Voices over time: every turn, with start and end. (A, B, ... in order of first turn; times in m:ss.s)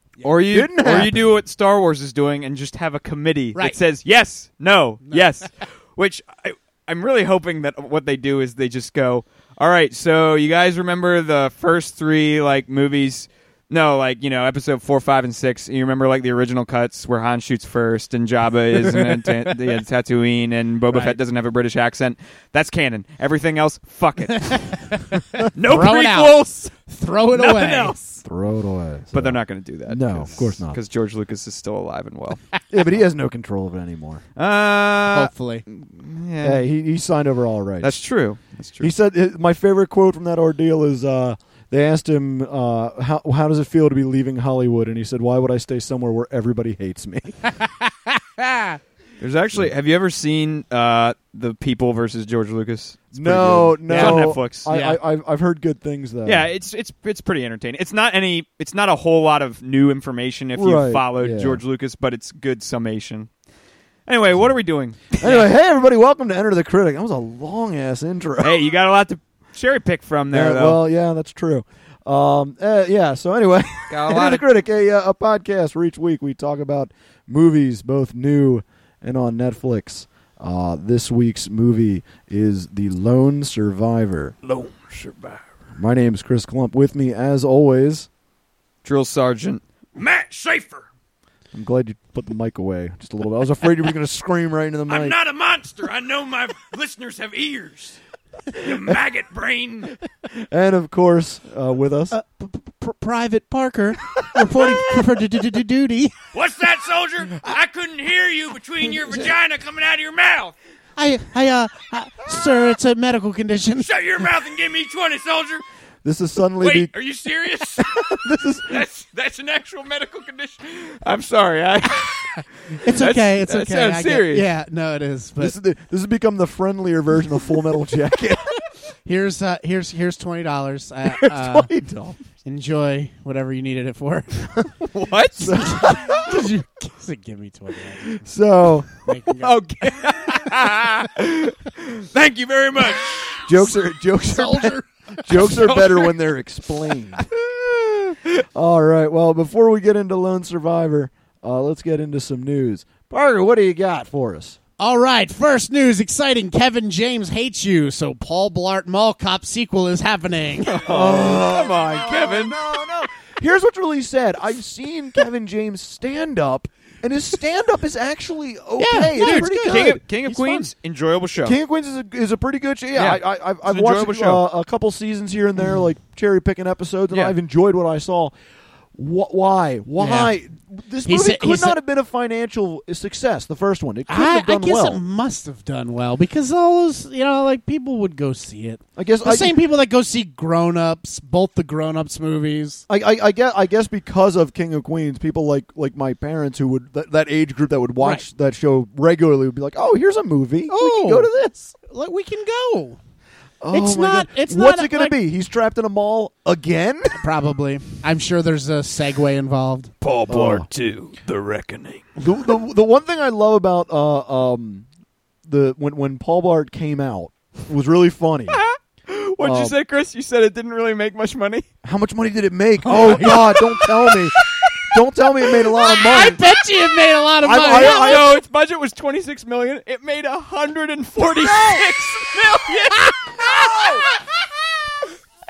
0:00.2-0:24.9 A
0:00.5-0:01.3 B
0:05.0-0:05.4 C
0:20.9-0:21.2 C
0:24.3-0:28.1 C
0:25.5-0:26.7 A
0:27.3-0:28.0 A
0:28.2-0:30.8 B
0:29.1-0:32.4 A
0:32.7-0:34.2 B
0:34.4-0:36.6 A
0:35.1-0:35.6 C
0:36.4-0:38.0 B
0:37.8-0:38.9 A
0:38.8-0:47.4 B
0:47.5-0:48.8 C
0:49.2-0:54.7 A
0:53.1-0:56.5 B
0:53.9-0:55.0 C
0:56.2-1:03.3 A
1:00.5-1:01.6 B
1:04.1-1:05.4 A
1:05.2-1:08.6 B
1:08.4-1:10.8 A
1:10.3-1:24.3 B
1:13.9-1:14.4 A
1:24.4-1:25.4 A
1:25.8-1:28.1 B
1:28.8-1:30.8 A
1:31.5-1:35.2 B
1:34.9-1:38.0 A
1:38.5-1:40.0 A
1:38.6-1:39.0 B
1:40.4-1:42.1 B
1:42.1-1:46.2 C
1:46.3-1:50.5 A
1:51.0-1:53.9 C
1:53.8-1:55.6 A
1:56.0-1:56.9 B
1:56.6-1:58.2 A
1:57.8-1:58.8 B
1:58.7-2:04.5 A
2:02.7-2:05.6 C
2:05.4-2:08.5 B
2:09.0-2:11.7 C
2:11.1-2:12.2 B
2:12.4-2:14.5 C
2:14.9-2:15.7 A
2:15.4-2:16.2 B
2:15.4-2:18.2 C
2:18.2-2:18.9 B
2:19.0-2:20.5 C
2:19.4-2:23.5 A
2:23.4-2:27.2 B
2:24.2-2:25.8 C
2:27.3-2:28.4 A
2:28.5-2:34.6 B
2:34.8-2:40.8 C
2:40.6-2:42.8 A
2:40.8-2:50.0 B
2:48.8-2:50.7 C
2:49.2-2:51.6 A
2:51.4-2:58.3 B
2:52.9-2:54.4 A
2:58.9-3:05.0 B
3:00.0-3:00.3 C
3:01.0-3:01.8 C
3:04.1-3:12.8 C
3:09.0-3:09.5 B
3:12.9-3:21.7 B
3:18.0-3:18.2 C
3:20.7-3:21.3 C
3:21.8-3:23.0 C
3:23.6-3:27.1 B
3:23.7-3:25.1 C
3:27.2-3:29.9 C
3:30.0-3:32.0 A
3:30.3-3:30.7 B
3:32.2-3:34.8 B
3:35.4-3:38.6 B
3:38.5-3:41.6 A
3:39.4-3:39.8 B
3:41.8-3:46.4 B
3:42.8-3:43.6 C
3:45.9-3:48.2 C
3:47.4-3:48.4 B
3:47.7-3:54.0 A
3:51.2-3:52.1 B
3:53.4-3:53.9 B